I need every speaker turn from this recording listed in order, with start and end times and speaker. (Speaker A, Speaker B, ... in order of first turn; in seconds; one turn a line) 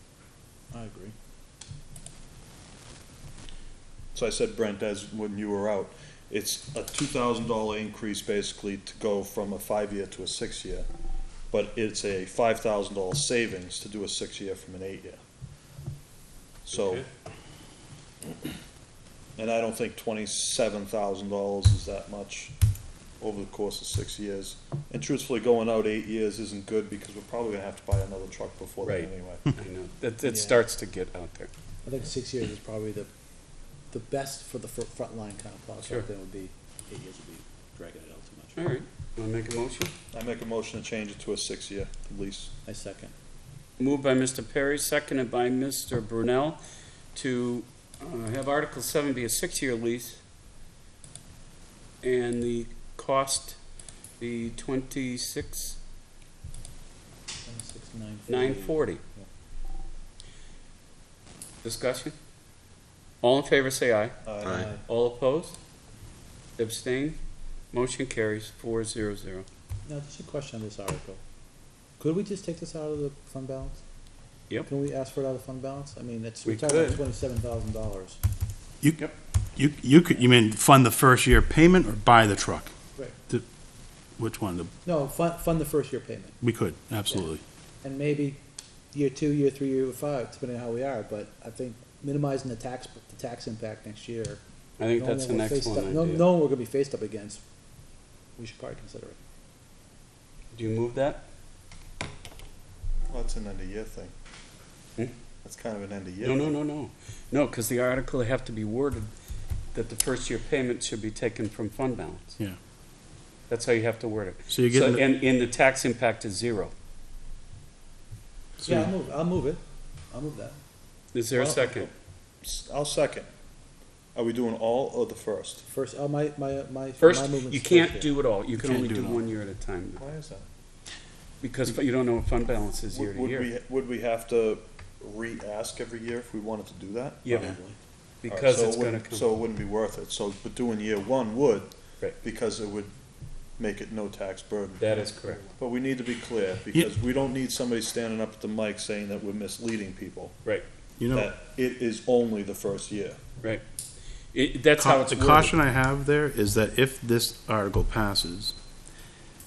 Speaker A: 0.7-1.1
Speaker B: 4.1-10.9
Speaker B: 11.5-15.2
Speaker B: 16.7-17.0
Speaker B: 19.4-22.5
Speaker B: 23.2-29.4
Speaker C: 28.8-31.5
Speaker A: 30.2-30.6
Speaker A: 31.8-33.1
Speaker A: 33.9-38.5
Speaker C: 38.5-39.9
Speaker B: 40.1-42.5
Speaker A: 42.6-43.1
Speaker C: 43.8-46.6
Speaker C: 47.1-50.2
Speaker C: 52.0-53.6
Speaker C: 54.2-55.8
Speaker A: 57.4-59.3
Speaker C: 58.3-59.0
Speaker C: 61.6-62.1
Speaker C: 63.2-64.2
Speaker B: 64.2-64.7
Speaker A: 64.5-64.8
Speaker C: 64.8-65.6
Speaker C: 66.6-67.2
Speaker C: 67.7-69.5
Speaker A: 69.8-71.2
Speaker A: 72.0-73.8
Speaker A: 74.7-78.2
Speaker C: 76.4-77.0
Speaker D: 79.5-82.7
Speaker D: 84.2-84.7
Speaker A: 84.8-86.4
Speaker D: 86.4-87.4
Speaker A: 87.8-88.4
Speaker A: 88.9-94.4
Speaker C: 94.8-96.3
Speaker A: 95.0-97.4
Speaker A: 98.3-99.2
Speaker C: 100.5-101.2
Speaker B: 103.1-104.1
Speaker B: 105.4-106.5
Speaker C: 106.2-109.1
Speaker C: 109.7-112.4
Speaker C: 113.5-116.7
Speaker D: 114.5-115.0
Speaker D: 118.6-118.9
Speaker A: 118.6-119.6
Speaker A: 120.1-120.6
Speaker C: 121.1-121.9
Speaker B: 121.3-121.9
Speaker B: 122.4-123.3
Speaker B: 124.1-125.6
Speaker A: 125.7-128.1
Speaker C: 127.0-130.0
Speaker D: 128.6-129.3
Speaker B: 130.0-130.4
Speaker C: 131.4-133.5
Speaker B: 132.9-137.4
Speaker C: 137.2-137.6
Speaker A: 137.4-137.7
Speaker C: 138.2-139.3
Speaker B: 138.3-142.9
Speaker B: 143.6-144.8
Speaker C: 144.8-145.4
Speaker A: 144.9-145.4
Speaker B: 145.6-150.4
Speaker D: 151.0-151.3
Speaker B: 151.1-153.2
Speaker C: 154.3-155.5
Speaker D: 154.8-158.6